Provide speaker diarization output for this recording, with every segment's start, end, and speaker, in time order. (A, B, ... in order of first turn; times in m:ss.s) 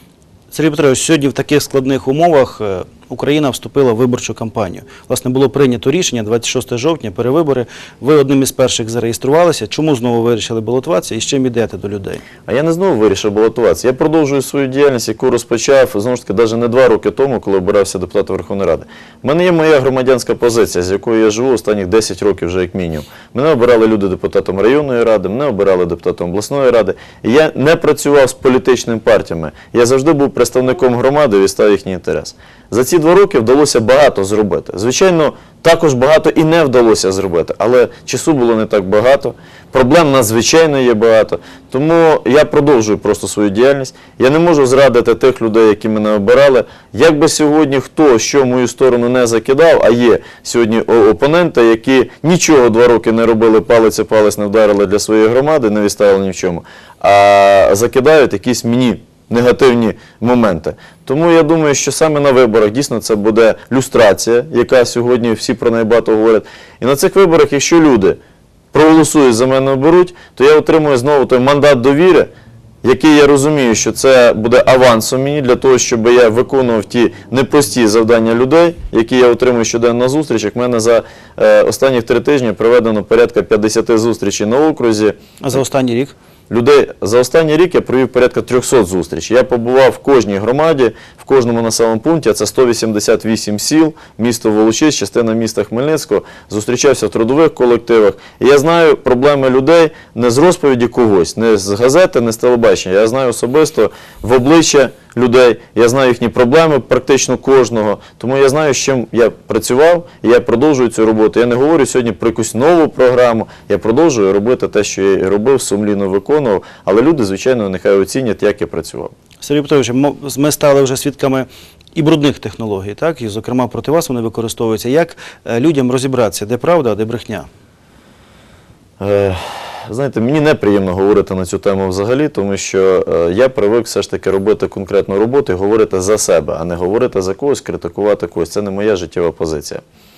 0:00.5-0:12.2 A
0:12.5-1:08.2 B
1:08.7-1:12.3 B
1:12.8-1:25.2 B
1:25.4-1:26.1 A
1:26.5-1:59.1 B
1:59.4-2:07.5 A
2:09.0-2:19.8 B